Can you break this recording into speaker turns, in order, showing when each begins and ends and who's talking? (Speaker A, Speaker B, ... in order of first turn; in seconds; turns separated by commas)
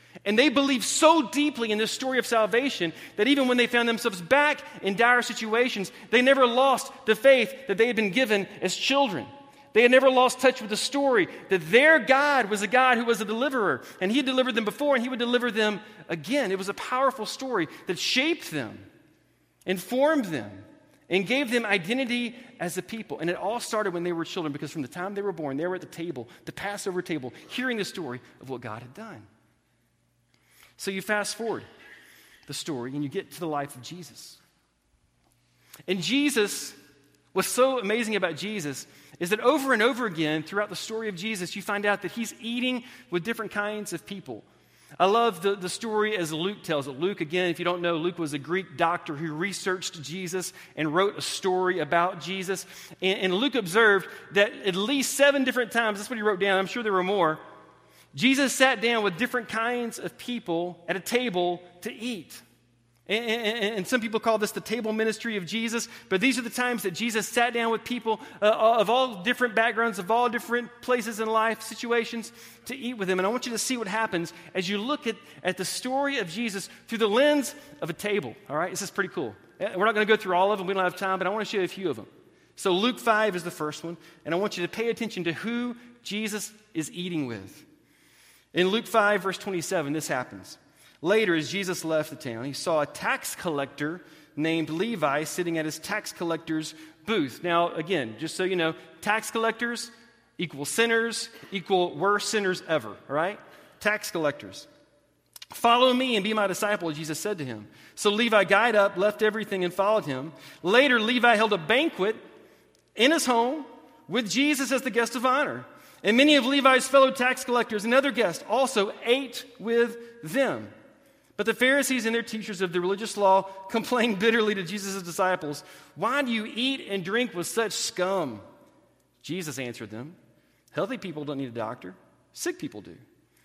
Speaker A: 0.2-18.9, Speaker A: 19.6-29.3, Speaker A: 30.8-31.7, Speaker A: 32.5-34.4, Speaker A: 35.9-36.8, Speaker A: 37.3-44.5, Speaker A: 45.0-57.4, Speaker A: 58.1-62.4, Speaker A: 63.1-87.7, Speaker A: 88.5-104.7, Speaker A: 105.5-112.2, Speaker A: 112.9-120.7, Speaker A: 121.4-128.4, Speaker A: 129.2-130.2, Speaker A: 130.7-133.0